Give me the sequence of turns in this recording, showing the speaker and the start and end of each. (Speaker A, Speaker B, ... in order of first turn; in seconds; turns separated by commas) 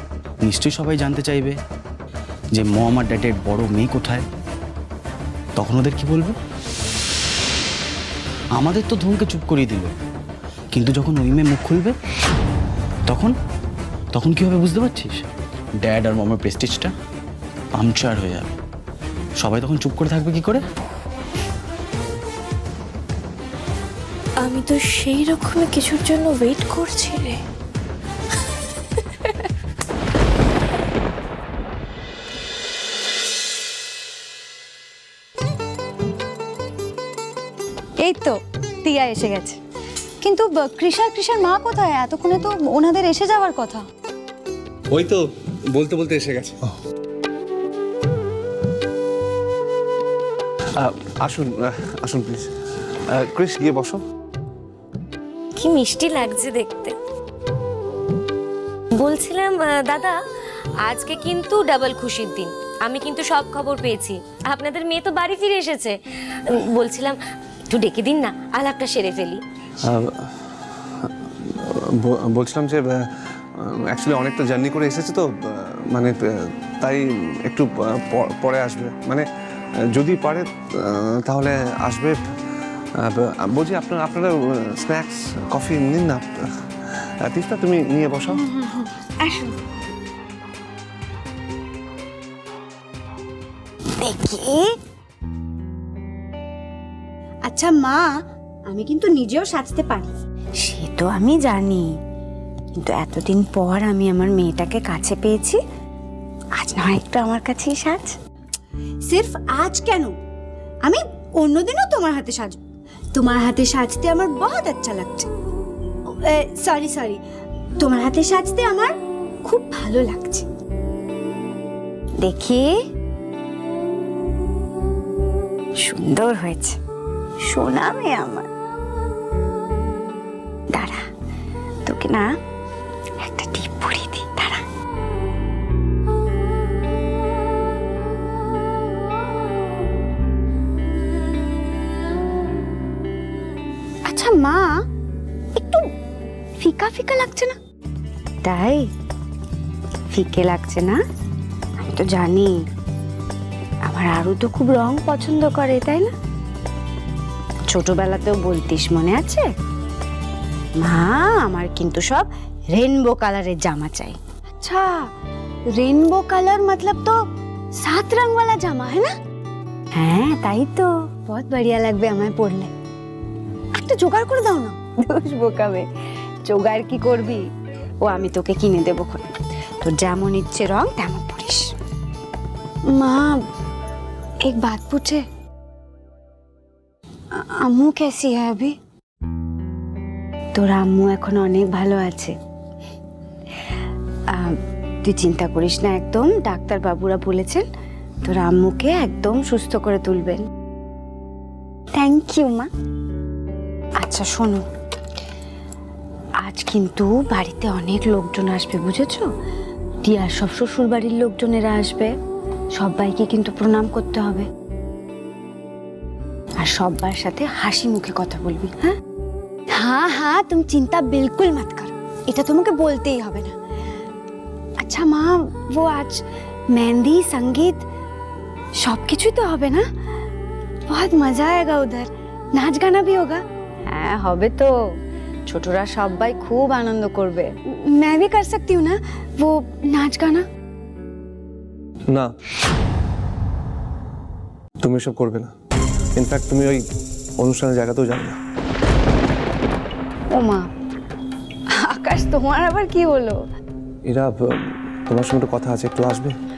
Speaker A: 0.4-1.6, Speaker A: 2.5-4.2, Speaker A: 5.6-6.4, Speaker A: 8.6-9.9, Speaker A: 10.7-11.9, Speaker A: 13.1-13.3, Speaker A: 14.1-15.2, Speaker A: 15.8-16.9, Speaker A: 17.8-18.5, Speaker A: 19.4-20.6, Speaker B: 24.4-27.3, Speaker C: 38.0-38.3, Speaker C: 38.8-39.5, Speaker C: 40.2-43.8, Speaker D: 44.9-46.6, Speaker D: 50.8-52.5, Speaker D: 53.1-54.0, Speaker E: 55.5-57.0, Speaker E: 58.9-60.1, Speaker E: 60.8-66.0, Speaker E: 66.6-67.2, Speaker E: 67.7-69.4, Speaker D: 69.8-70.2, Speaker D: 71.0-73.0, Speaker D: 73.6-79.2, Speaker D: 79.9-82.2, Speaker D: 83.0-86.3, Speaker D: 87.2-88.4, Speaker C: 88.3-89.5, Speaker C: 94.0-94.7, Speaker C: 97.5-98.1, Speaker C: 98.7-101.9, Speaker C: 102.8-105.6, Speaker C: 106.6-108.1, Speaker C: 109.1-110.1, Speaker C: 110.8-112.6, Speaker C: 113.1-115.3, Speaker C: 116.1-117.2, Speaker C: 117.8-120.4, Speaker C: 122.2-122.7, Speaker C: 125.8-126.8, Speaker C: 127.5-128.4, Speaker C: 130.7-131.0, Speaker C: 131.8-132.3, Speaker C: 133.2-134.6, Speaker C: 144.1-144.7, Speaker C: 145.6-145.8, Speaker C: 146.6-147.5, Speaker C: 148.4-148.8, Speaker C: 150.1-151.0, Speaker C: 151.8-152.5, Speaker C: 153.9-156.1, Speaker C: 157.7-159.4, Speaker C: 160.8-165.0, Speaker C: 165.8-167.2, Speaker C: 167.8-169.1, Speaker C: 169.9-172.7, Speaker C: 173.8-175.8, Speaker C: 176.4-177.4, Speaker C: 178.0-179.3, Speaker C: 179.8-181.7, Speaker C: 182.9-183.3, Speaker C: 184.4-185.2, Speaker C: 187.4-188.7, Speaker C: 190.5-192.3, Speaker C: 194.3-197.7, Speaker C: 198.2-200.4, Speaker C: 201.9-202.7, Speaker C: 204.0-204.6, Speaker C: 206.4-209.3, Speaker C: 210.0-212.1, Speaker C: 212.8-214.5, Speaker C: 216.6-219.0, Speaker C: 219.7-223.5, Speaker C: 224.8-226.2, Speaker C: 226.7-227.8, Speaker C: 228.8-229.8, Speaker C: 230.9-234.7, Speaker C: 235.5-240.4, Speaker D: 244.8-245.5, Speaker D: 246.2-246.8, Speaker D: 247.4-248.4, Speaker C: 250.3-250.7, Speaker C: 251.8-253.4, Speaker D: 254.1-254.3, Speaker D: 255.1-256.3